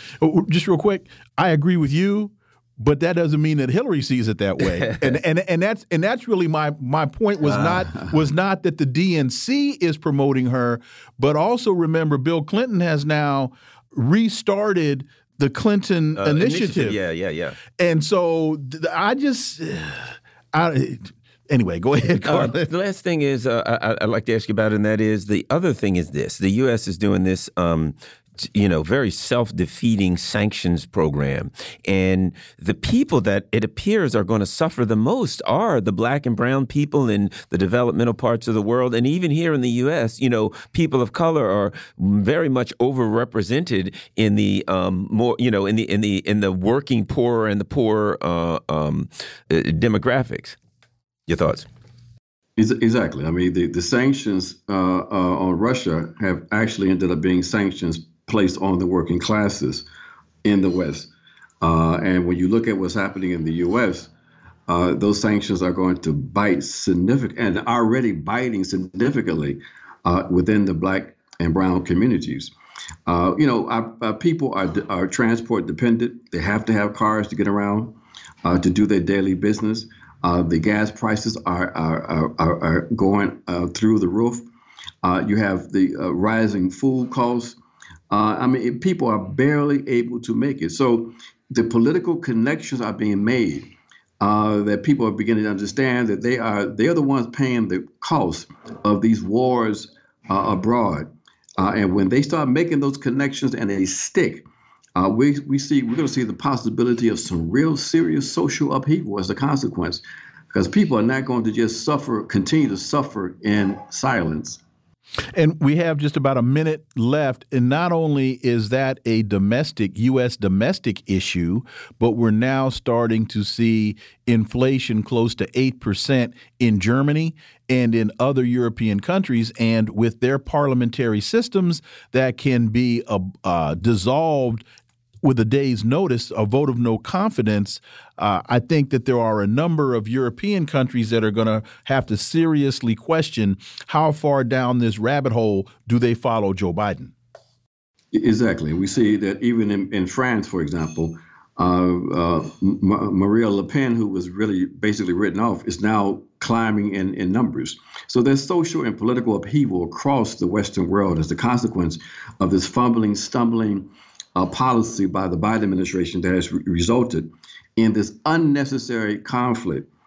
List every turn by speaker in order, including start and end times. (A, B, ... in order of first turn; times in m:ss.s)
0:00.2-0:17.0 A
0:07.5-0:08.2 B
0:16.2-0:17.6 C
0:17.8-0:22.6 A
0:22.2-0:50.6 C
0:51.3-0:51.7 C
0:52.6-0:59.9 B
1:00.4-1:01.1 B
1:01.6-1:04.1 B
1:04.7-1:12.5 B
1:13.1-1:24.5 B
1:25.0-1:27.6 B
1:28.1-1:54.6 B
1:55.4-2:14.6 A
2:15.2-2:27.1 A
2:28.1-2:49.9 B